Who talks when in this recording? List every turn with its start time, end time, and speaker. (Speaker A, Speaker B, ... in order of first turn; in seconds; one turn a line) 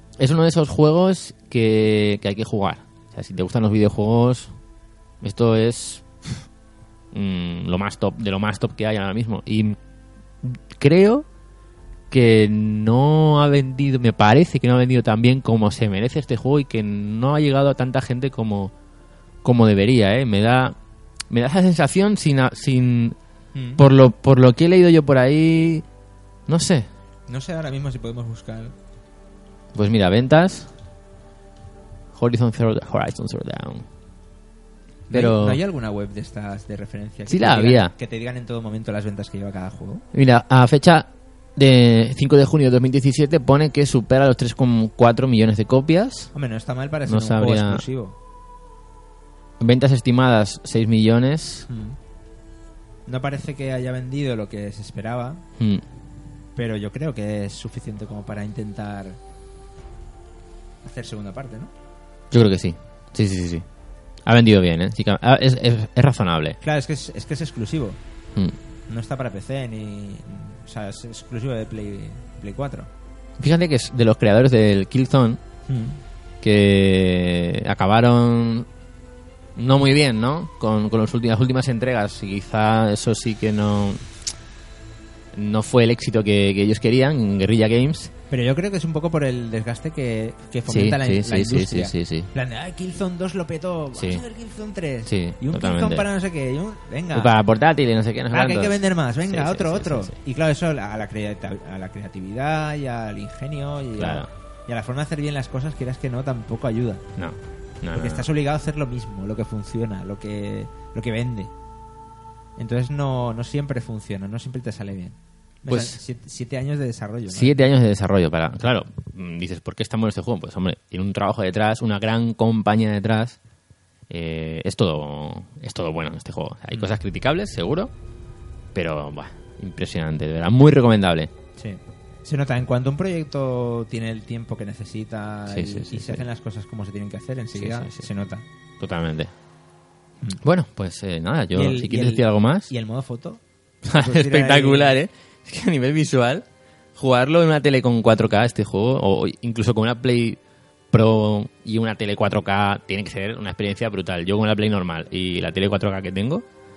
Speaker A: 0.2-4.5
Speaker A: 5.2-6.4
Speaker A: 7.1-9.8
Speaker A: 10.4-11.3
Speaker A: 12.1-18.7
Speaker A: 19.4-20.8
Speaker A: 21.3-23.2
Speaker B: 23.6-23.8
Speaker A: 23.8-25.9
Speaker A: 26.5-26.9
Speaker B: 27.3-28.7
Speaker A: 29.7-30.7
Speaker A: 32.1-33.9
Speaker A: 35.1-35.6
Speaker B: 35.1-40.0
Speaker A: 37.3-37.9
Speaker A: 40.1-46.3
Speaker B: 46.3-48.1
Speaker A: 47.1-47.8
Speaker A: 49.6-51.7
Speaker B: 51.7-52.0
Speaker B: 53.1-55.4
Speaker B: 56.6-59.2
Speaker B: 60.8-61.7
Speaker A: 62.3-63.6
Speaker A: 64.2-66.6
Speaker B: 66.6-68.0
Speaker B: 68.9-72.9
Speaker A: 73.4-75.4
Speaker B: 75.7-76.0
Speaker A: 76.4-78.7
Speaker A: 79.6-84.1
Speaker A: 85.3-88.1
Speaker B: 88.3-97.3
Speaker A: 90.7-92.3
Speaker A: 94.0-94.2
Speaker A: 95.1-96.1
Speaker A: 97.1-100.1
Speaker B: 98.3-107.0
Speaker A: 104.0-104.3
Speaker A: 107.2-108.3
Speaker B: 107.9-111.5
Speaker B: 112.6-117.6
Speaker A: 115.7-116.0
Speaker A: 117.3-123.4
Speaker A: 124.1-127.9
Speaker A: 128.7-131.3
Speaker B: 131.6-138.4
Speaker A: 135.5-136.2
Speaker A: 137.6-138.1
Speaker A: 138.8-139.3
Speaker A: 140.4-142.7
Speaker B: 141.5-143.4
Speaker A: 143.9-146.4
Speaker B: 143.9-145.0
Speaker A: 147.0-150.4
Speaker A: 150.9-156.4